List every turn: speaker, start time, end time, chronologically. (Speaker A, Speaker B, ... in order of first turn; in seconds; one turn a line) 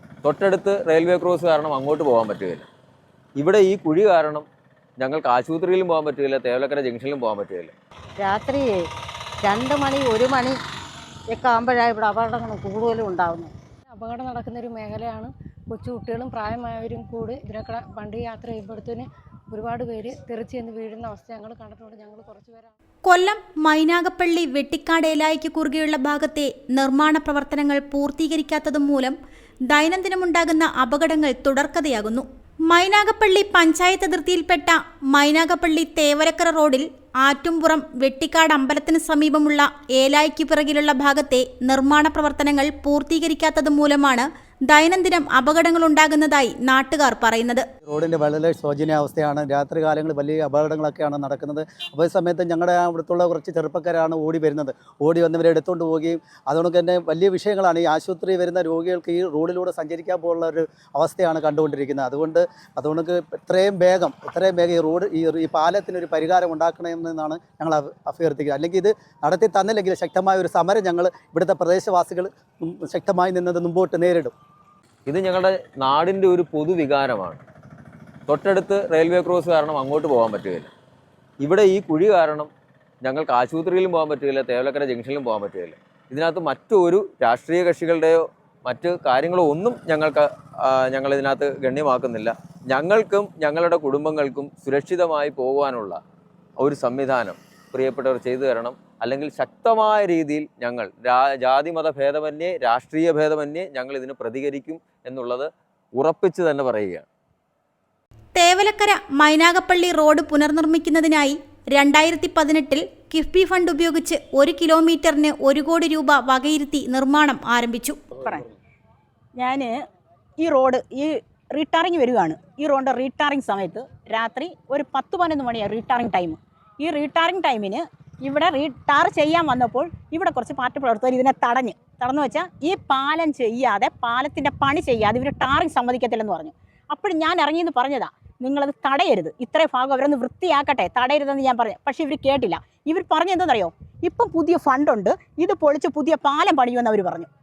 Speaker A: 0.2-2.7
Speaker A: 3.4-4.5
Speaker A: 5.0-7.7
Speaker B: 8.2-8.7
Speaker B: 9.4-10.6
Speaker B: 11.3-13.5
Speaker C: 13.9-22.7
Speaker D: 23.1-29.2
Speaker D: 29.7-47.6
Speaker E: 47.9-74.3
Speaker A: 75.1-77.4
Speaker A: 78.3-80.7
Speaker A: 81.4-82.5
Speaker A: 83.0-96.0
Speaker A: 96.6-107.1
Speaker D: 108.3-118.0
Speaker F: 118.2-118.4
Speaker F: 119.4-119.8
Speaker F: 120.4-147.3